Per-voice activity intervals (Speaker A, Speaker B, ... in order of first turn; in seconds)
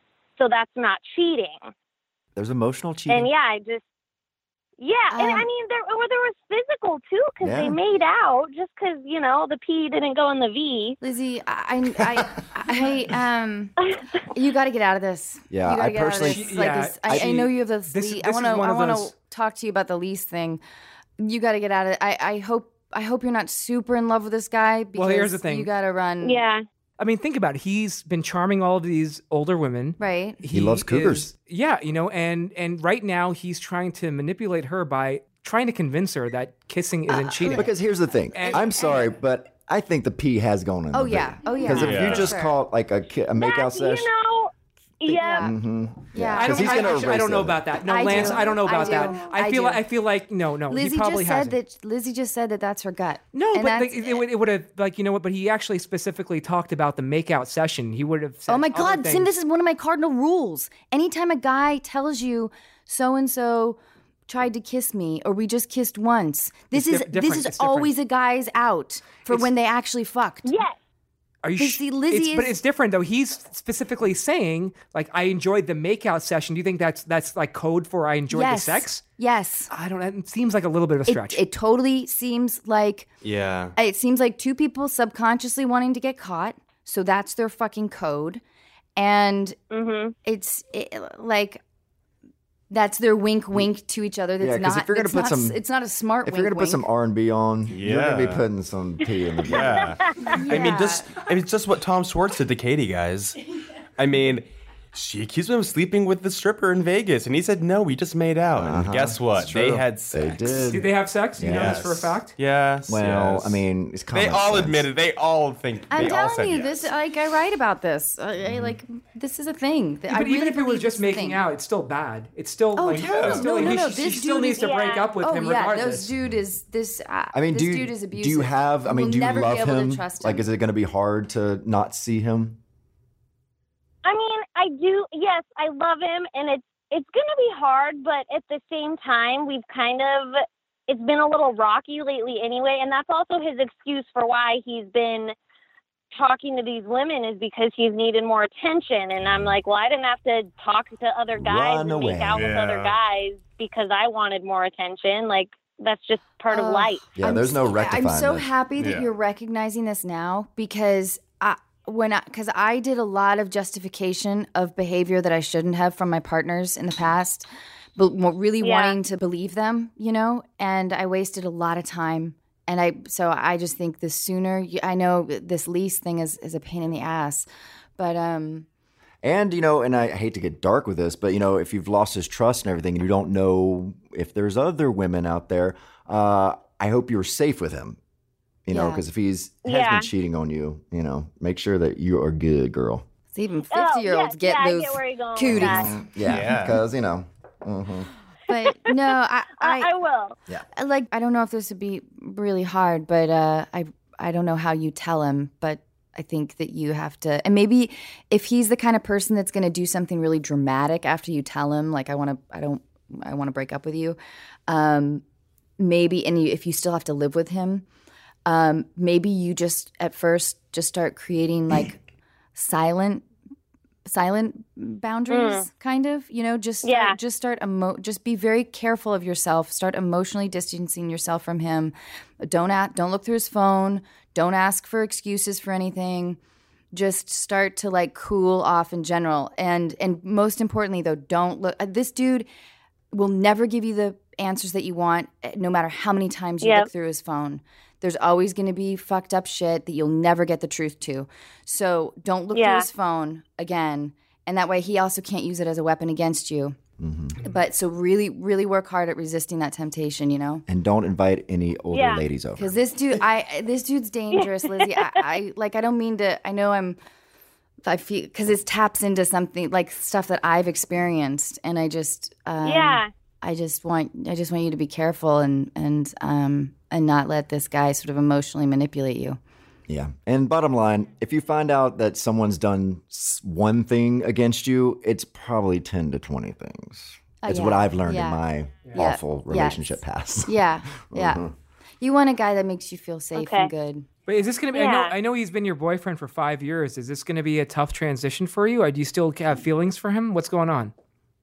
Speaker A: 0.4-1.7, 3.1-3.8, 4.8-11.0, 26.2-26.6, 43.4-45.5, 70.4-70.8, 89.7-90.1, 99.8-100.4, 124.5-125.1, 134.0-145.3, 146.1-157.1, 168.6-169.0, 189.6-190.1, 193.7-195.9, 198.6-200.3, 225.3-225.7, 226.8-227.2, 246.6-246.9, 252.5-252.9, 261.9-262.2, 264.3-265.2, 272.6-273.1, 293.3-293.7, 294.7-295.1
Speaker B: 2.3-3.3, 7.4-7.8, 15.5-17.4, 30.5-31.3, 37.5-44.1, 45.4-48.4, 94.4-95.6, 96.2-100.0, 108.5-111.9, 112.9-114.9, 118.4-118.7, 122.9-123.6, 127.3-132.6, 149.2-149.5, 151.3-152.5, 157.2-158.5, 179.2-188.0, 188.7-193.0, 195.5-198.1, 257.0-257.4, 260.7-262.7, 279.9-291.5
Speaker C: 5.1-5.5, 11.0-13.7, 14.3-20.6, 21.2-26.4, 30.0-30.4, 37.1-37.7, 38.4-39.1, 40.9-42.5, 45.0-45.5, 46.1-47.1, 47.8-49.8, 50.7-54.2, 58.5-70.5, 71.6-72.5, 78.3-79.7, 81.1-83.1, 83.8-88.4, 89.0-89.5, 90.2-91.6, 92.7-96.8, 100.3-101.2, 115.9-121.4, 122.8-130.4, 156.5-177.5, 178.0-178.7, 188.7-189.0, 193.3-195.9, 198.5-199.9, 200.7-214.2, 214.7-215.2, 215.8-217.8, 218.4-222.0, 222.6-223.2, 224.0-236.4, 236.9-242.5, 243.1-256.8, 257.4-260.6, 262.6-267.0, 267.8-279.4, 287.4-288.4, 288.9-289.8, 290.5-291.4, 292.0-294.1
Speaker D: 16.2-19.1, 24.9-25.7, 27.0-37.7, 38.3-38.6, 46.3-51.6, 53.3-59.3, 66.7-67.9, 71.4-79.0, 79.7-81.4, 110.7-112.3, 120.1-126.1, 294.3-300.9
Speaker E: 41.7-42.4, 83.2-83.7, 97.7-98.4, 99.5-103.4, 104.0-110.6, 111.4-113.6, 114.1-116.9, 123.0-123.8, 152.3-152.9, 158.8-159.1, 196.2-196.8